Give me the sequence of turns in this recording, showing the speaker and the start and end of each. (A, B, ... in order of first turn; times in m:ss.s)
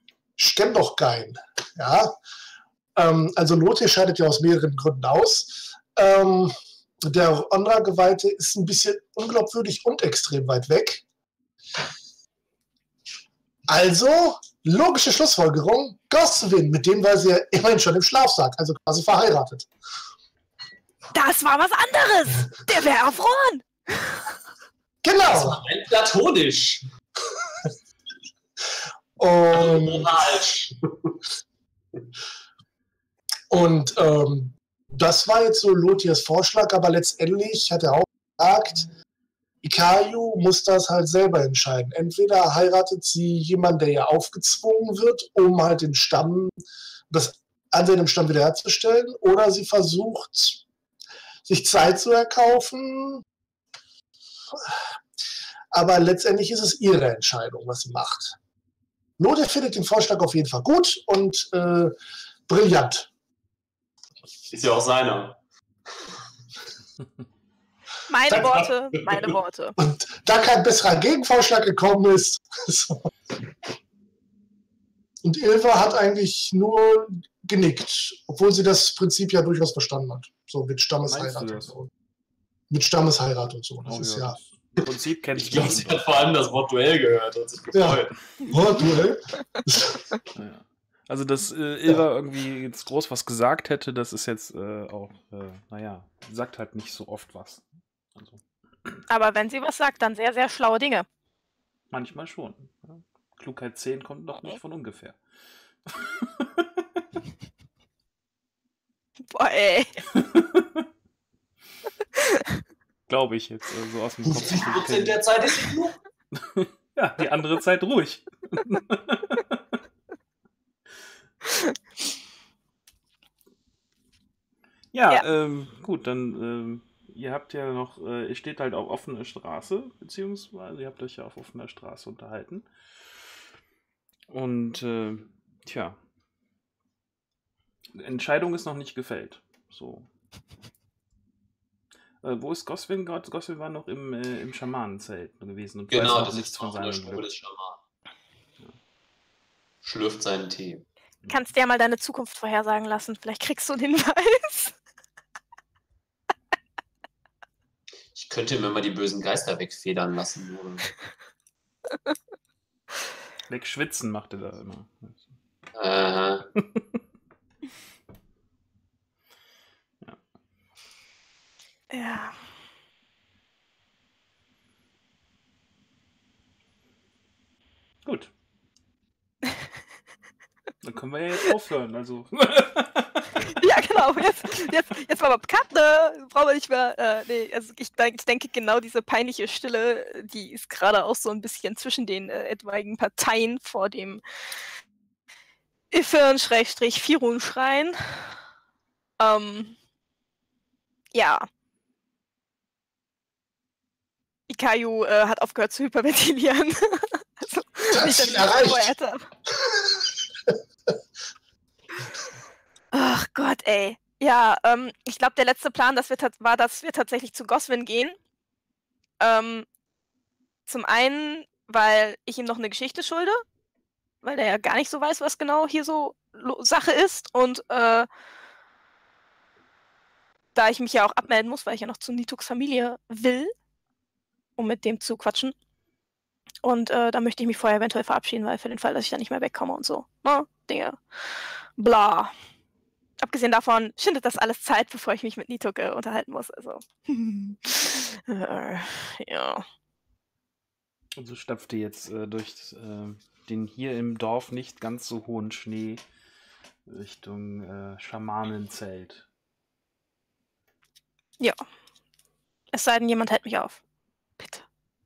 0:00.4-0:02.1 A
0:03.0-0:11.0 A
0:13.7-0:19.7 A
0:21.1-0:24.3 B
0:25.0-0:25.6 A
0:25.2-0:26.8 C
0:29.2-0:30.2 A
0:29.5-0:31.2 C
0:33.5-0:38.9 A
0:39.6-0:50.6 A
0:51.5-0:53.2 A
0:54.5-0:54.8 A
0:55.7-0:58.4 A
0:59.2-1:01.9 A
1:02.5-1:03.1 A
1:04.5-1:05.4 C
1:08.1-1:09.8 B
1:08.3-1:09.2 C
1:09.8-1:13.1 A
1:15.2-1:21.9 A
1:21.1-1:21.7 D
1:22.7-1:24.4 A
1:23.8-1:26.0 D
1:25.3-1:28.2 C
1:27.7-1:30.0 A
1:30.3-1:39.0 D
1:39.1-1:41.1 B
1:41.9-1:45.2 D
1:45.9-1:47.0 D
1:49.3-1:50.0 B
1:50.2-1:50.8 D
1:52.2-1:52.4 B
1:53.1-1:55.2 D
1:54.2-1:56.0 C
1:56.3-1:59.6 D
2:04.9-2:12.7 D
2:14.3-2:16.0 D
2:17.9-2:20.1 D
2:22.2-2:27.2 D
2:25.9-2:27.8 C
2:29.8-2:30.8 C
2:31.3-2:34.8 B
2:38.2-2:40.9 C
2:43.5-2:45.3 D
2:45.8-2:46.5 C
2:46.6-2:47.0 D
2:51.9-2:52.4 B
2:58.0-2:58.3 D
3:00.8-3:03.6 D
3:03.6-3:14.2 B
3:15.9-3:18.0 B
3:19.2-3:19.8 B
3:21.1-3:21.5 B
3:24.5-3:29.3 B
3:27.9-3:28.9 A
3:29.5-3:30.5 A
3:32.9-3:38.2 B
3:39.2-3:39.7 B
3:40.7-3:43.4 B
3:44.2-3:48.1 B
3:50.6-3:53.5 B
3:54.6-3:55.5 B
3:56.6-4:02.3 B
4:03.2-4:09.6 B
4:11.2-4:16.0 D
4:16.9-4:19.3 D
4:22.7-4:23.8 B
4:24.4-4:24.6 B